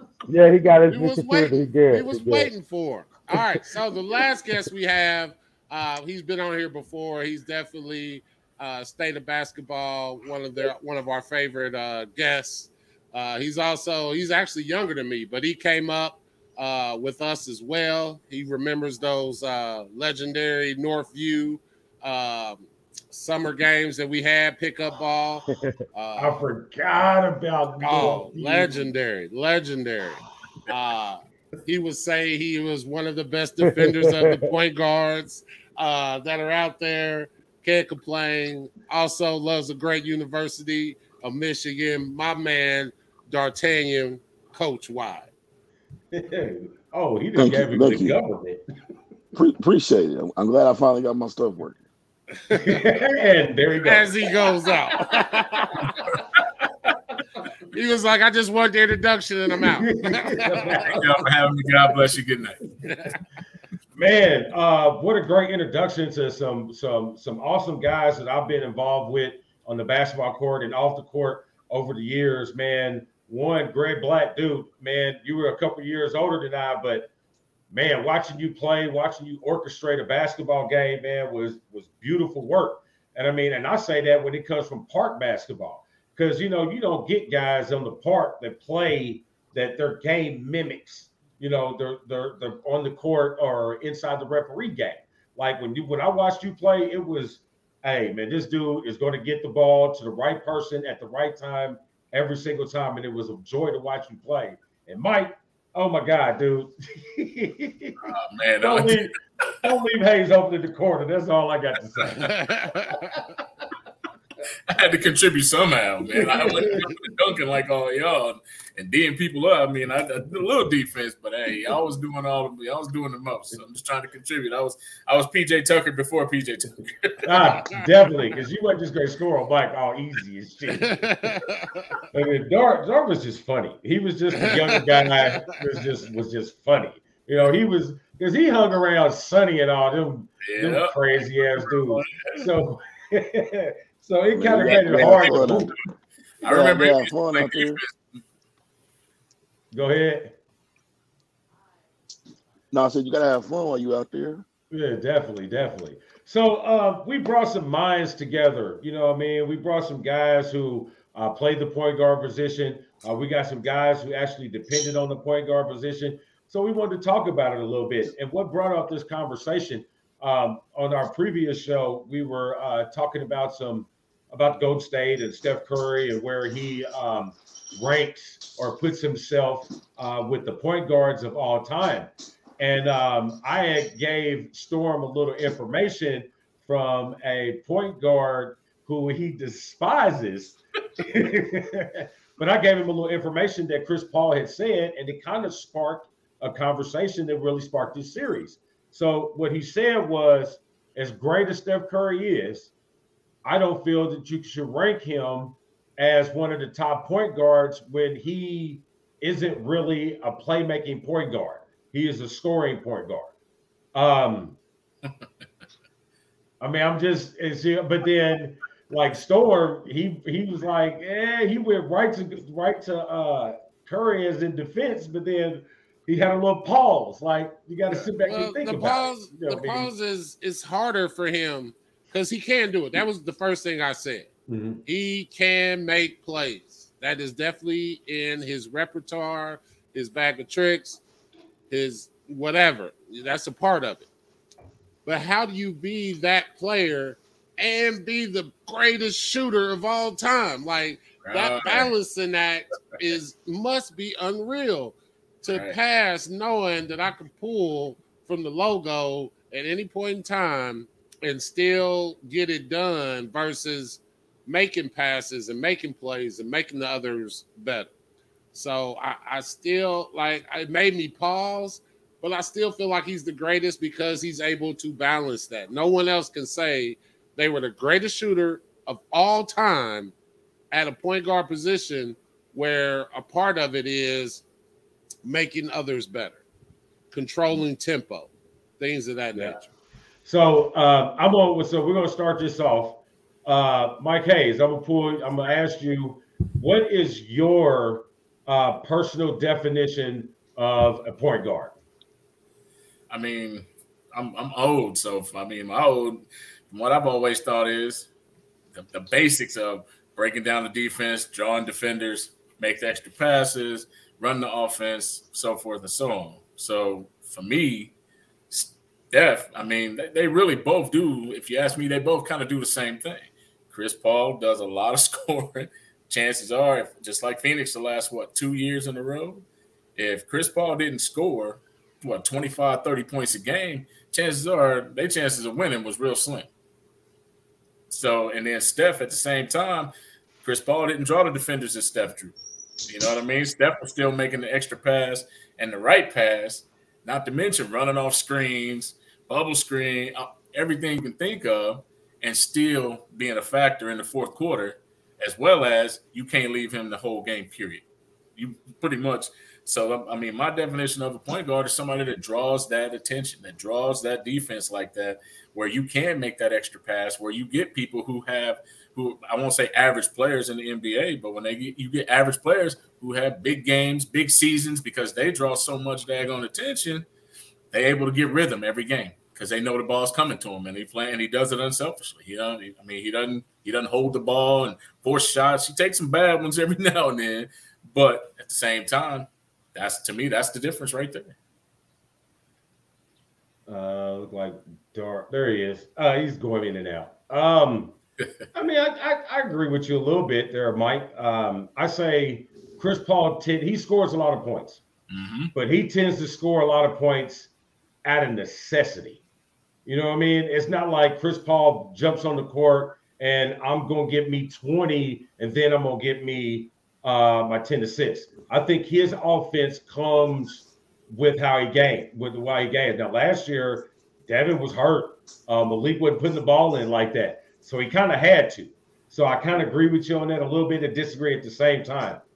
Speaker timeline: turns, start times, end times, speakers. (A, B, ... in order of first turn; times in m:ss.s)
0:00.3-0:02.5 A
0:00.9-0:26.4 B
0:26.2-0:28.9 C
0:27.8-0:45.3 B
0:46.1-0:48.6 C
0:47.4-0:48.2 D
0:49.3-0:51.8 D
0:52.5-0:54.3 C
0:53.8-0:55.9 B
0:55.0-0:55.9 C
0:57.7-1:00.8 B
0:59.6-1:01.2 C
1:00.9-1:02.6 E
1:02.9-1:03.2 B
1:04.0-1:17.1 C
1:17.7-1:48.0 C
1:48.1-1:49.1 E
1:48.6-1:53.2 C
1:52.1-1:53.0 B
1:54.7-2:07.6 E
1:56.1-1:56.9 C
2:07.2-2:11.0 C
2:10.8-2:12.0 B
2:12.1-2:25.8 C
2:14.4-2:15.4 B
2:20.4-2:22.5 E
2:24.3-2:25.7 D
2:24.6-2:25.7 E
2:26.4-2:28.0 E
2:26.4-2:27.8 D
2:29.7-2:30.4 C
2:32.7-2:34.4 D
2:34.7-3:22.7 C
3:23.4-3:33.3 C
3:33.9-3:34.6 C
3:36.6-3:49.9 C
3:48.2-3:54.3 B
3:54.5-3:54.8 C
3:54.9-4:01.0 B
4:01.7-4:04.1 B
4:05.0-4:27.9 B
4:11.2-4:11.9 E
4:15.5-4:15.8 E
4:28.5-4:40.2 B
4:40.7-4:44.4 B
4:45.2-4:46.4 B
4:47.1-4:49.7 B
4:50.2-5:01.8 C
5:03.1-5:08.1 E
5:08.7-5:17.9 E
5:18.5-5:36.5 E
5:37.9-5:39.9 E
5:40.4-5:57.8 E
5:58.4-6:17.1 E
6:17.7-6:31.4 E
6:33.7-6:38.0 C
6:38.5-6:44.8 C
6:45.1-6:45.5 E
6:45.5-6:47.5 C
6:48.0-6:49.2 C
6:49.9-7:12.2 C